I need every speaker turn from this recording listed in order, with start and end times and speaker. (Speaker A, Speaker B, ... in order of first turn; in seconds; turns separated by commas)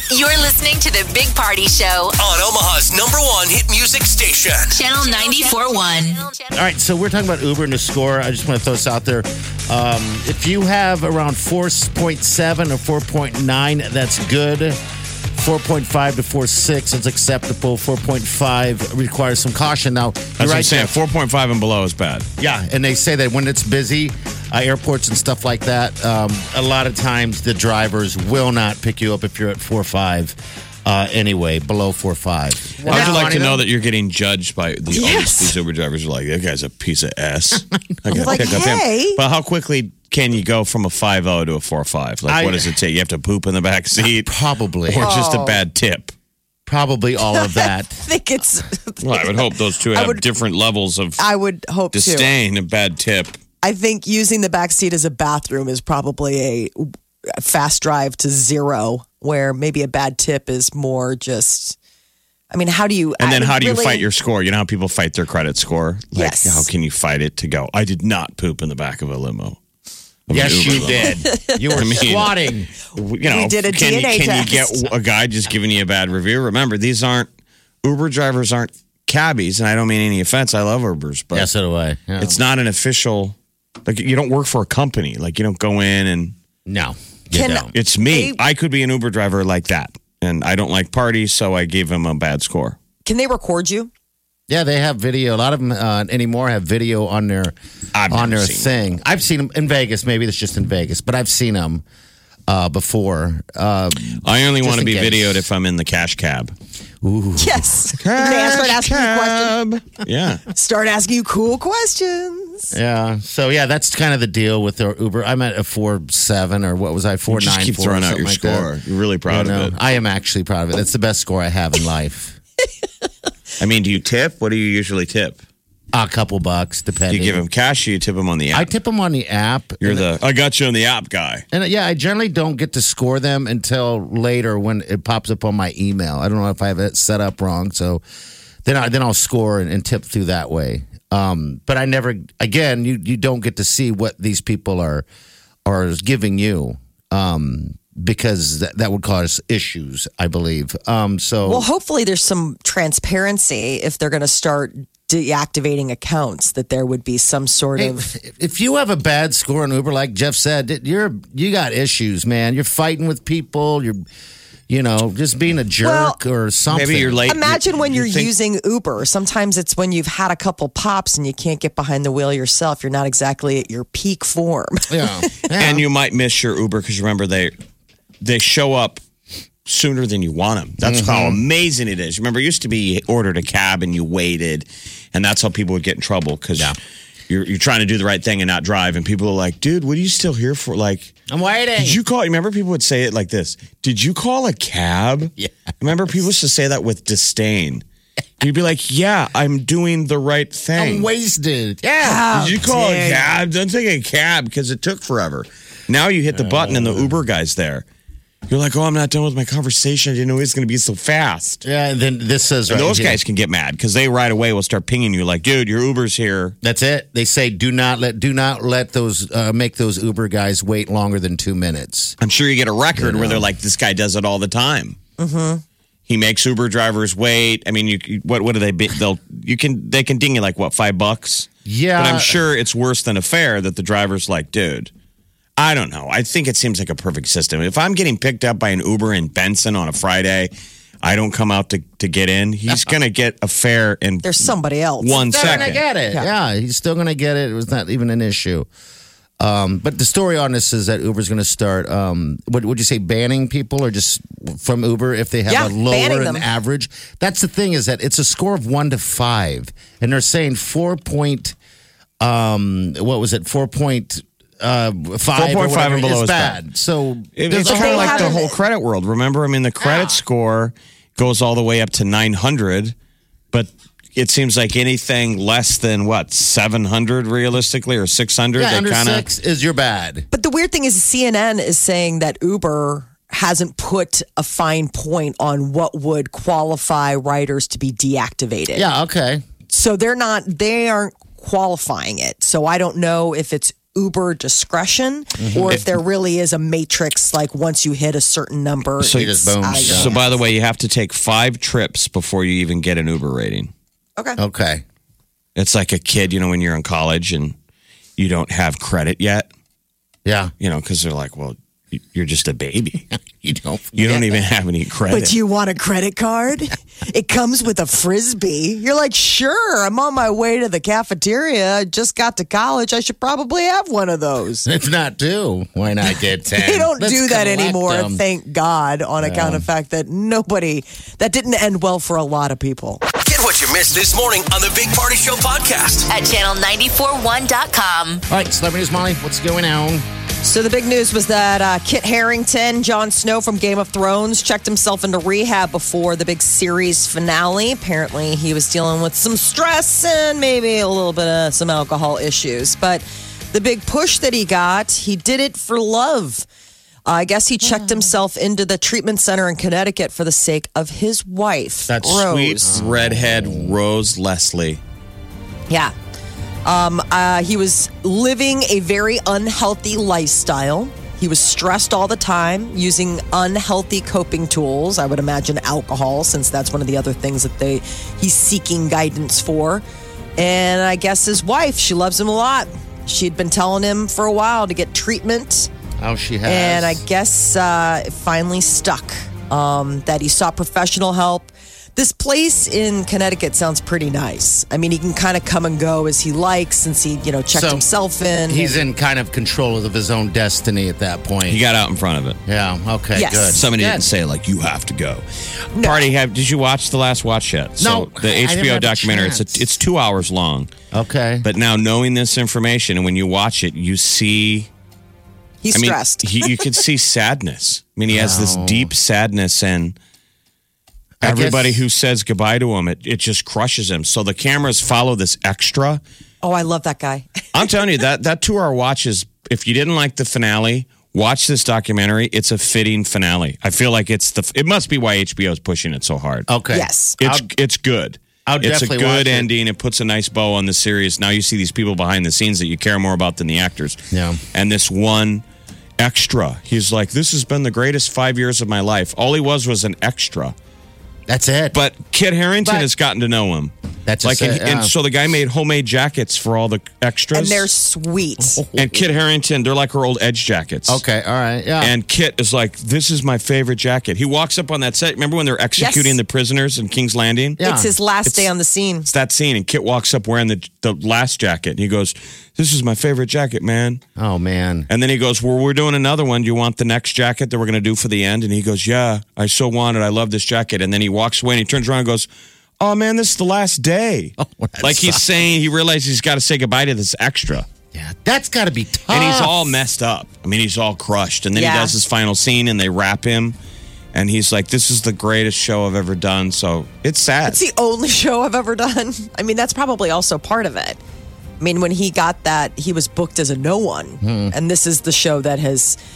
Speaker A: 0.1-2.2, Speaker B: 2.2-4.8, Speaker A: 4.7-6.5, Speaker C: 6.5-14.8, Speaker C: 15.3-20.9, Speaker D: 20.4-22.3, Speaker C: 22.4-33.6, Speaker E: 32.8-33.4, Speaker D: 32.9-44.3, Speaker E: 34.9-35.6, Speaker E: 38.1-39.2, Speaker C: 38.2-38.6, Speaker C: 42.3-42.7, Speaker C: 44.0-45.1, Speaker D: 44.9-46.1, Speaker E: 45.0-45.6, Speaker C: 46.7-48.0, Speaker E: 47.3-50.2, Speaker D: 49.0-51.2, Speaker E: 51.2-52.3, Speaker D: 51.9-53.4, Speaker E: 53.6-61.8, Speaker E: 62.5-64.0, Speaker D: 63.2-69.6, Speaker E: 66.1-66.7, Speaker D: 70.3-71.2, Speaker C: 70.3-72.7, Speaker E: 71.2-71.8, Speaker D: 71.8-72.4, Speaker D: 72.9-77.3, Speaker E: 73.2-74.9, Speaker D: 77.8-81.5, Speaker C: 81.3-82.4, Speaker D: 82.2-86.3, Speaker C: 86.7-87.7, Speaker E: 87.3-88.4, Speaker D: 87.7-92.8, Speaker E: 93.0-93.9, Speaker C: 94.5-97.5, Speaker D: 98.0-98.7, Speaker C: 98.1-101.8, Speaker C: 102.5-105.5, Speaker D: 104.2-106.5, Speaker C: 107.0-107.7, Speaker E: 107.4-109.6, Speaker D: 108.0-110.4, Speaker E: 110.5-112.7, Speaker C: 112.7-118.7, Speaker D: 117.3-119.8, Speaker C: 119.3-122.4, Speaker D: 123.6-125.4, Speaker C: 125.9-127.4, Speaker D: 127.1-128.7, Speaker C: 128.5-130.1, Speaker D: 129.8-131.4, Speaker C: 131.5-138.0, Speaker C: 138.7-145.1, Speaker C: 145.7-151.7, Speaker E: 151.4-158.1, Speaker C: 157.8-164.1, Speaker C: 164.7-167.2, Speaker E: 165.8-166.2, Speaker D: 166.7-168.3, Speaker E: 167.3-175.3, Speaker C: 174.9-175.8, Speaker D: 175.6-177.5, Speaker D: 178.2-179.0, Speaker D: 179.7-186.8, Speaker C: 180.8-181.4, Speaker D: 187.3-191.1, Speaker C: 191.3-192.0, Speaker D: 191.8-197.8, Speaker C: 195.4-195.7, Speaker D: 198.4-201.1, Speaker C: 200.8-202.7, Speaker E: 202.0-203.2, Speaker D: 202.3-207.8, Speaker C: 206.3-207.2, Speaker D: 208.5-211.6, Speaker C: 211.6-213.2, Speaker D: 212.7-216.6, Speaker C: 216.6-222.2, Speaker D: 222.2-225.0, Speaker C: 223.0-223.5, Speaker E: 225.2-225.6, Speaker D: 226.1-234.9, Speaker C: 231.7-232.4, Speaker D: 235.6-240.5, Speaker D: 241.0-245.8, Speaker E: 244.2-246.3, Speaker C: 245.2-248.7, Speaker C: 249.4-261.6, Speaker E: 255.5-256.5, Speaker C: 262.2-268.4, Speaker D: 265.4-266.6, Speaker D: 267.4-272.9, Speaker E: 267.6-268.6, Speaker C: 269.8-270.2, Speaker D: 273.5-279.3, Speaker C: 278.6-280.3, Speaker E: 280.3-288.9, Speaker C: 288.8-289.4, Speaker E: 289.7-300.4, Speaker C: 295.4-295.8, Speaker C: 299.0-300.2, Speaker D: 299.1-303.7, Speaker C: 304.4-304.8, Speaker D: 305.6-307.6, Speaker D: 308.2-309.5, Speaker C: 310.2-310.5, Speaker D: 310.6-313.1, Speaker C: 313.3-314.2, Speaker D: 313.9-315.4, Speaker E: 315.1-324.7, Speaker C: 324.7-328.2, Speaker E: 326.6-333.0, Speaker C: 329.2-329.7, Speaker B: 333.1-336.1, Speaker A: 336.1-338.2, Speaker C: 338.3-340.1, Speaker E: 340.4-356.5, Speaker E: 357.1-362.7, Speaker D: 361.9-364.8, Speaker C: 362.6-363.8, Speaker E: 365.7-365.9, Speaker E: 366.6-379.8, Speaker E: 380.4-385.7, Speaker C: 386.0-387.0, Speaker E: 386.4-398.8, Speaker C: 397.5-397.9, Speaker C: 398.5-401.6, Speaker D: 401.5-402.4, Speaker C: 402.5-404.1, Speaker E: 403.1-403.6, Speaker D: 403.5-405.2, Speaker E: 405.7-406.1, Speaker D: 405.8-410.7, Speaker C: 407.8-409.6, Speaker C: 410.9-411.5, Speaker D: 411.4-414.7, Speaker E: 415.6-416.6, Speaker D: 415.7-420.0, Speaker C: 418.1-418.9, Speaker C: 421.2-421.8, Speaker D: 421.2-426.0, Speaker E: 426.4-427.6, Speaker D: 427.5-436.5, Speaker C: 436.5-437.4, Speaker E: 436.7-437.2, Speaker D: 437.2-444.0, Speaker C: 438.5-439.5, Speaker C: 444.1-444.4, Speaker D: 444.5-445.4, Speaker D: 446.0-450.6, Speaker C: 451.3-451.8, Speaker D: 451.7-453.7, Speaker C: 454.1-454.9, Speaker D: 454.2-457.7, Speaker E: 457.3-458.6, Speaker C: 458.4-459.1, Speaker D: 458.8-461.0, Speaker C: 460.9-461.9, Speaker D: 461.8-467.6, Speaker E: 465.8-466.2, Speaker C: 467.6-467.9, Speaker E: 467.6-469.1, Speaker D: 469.1-474.0, Speaker C: 474.2-474.9, Speaker D: 474.9-482.3, Speaker D: 482.8-487.7, Speaker C: 484.4-485.3, Speaker C: 487.9-489.7, Speaker D: 489.1-493.6, Speaker E: 491.5-492.0, Speaker D: 494.1-497.6, Speaker E: 497.5-501.0, Speaker E: 501.6-506.0, Speaker C: 504.2-504.5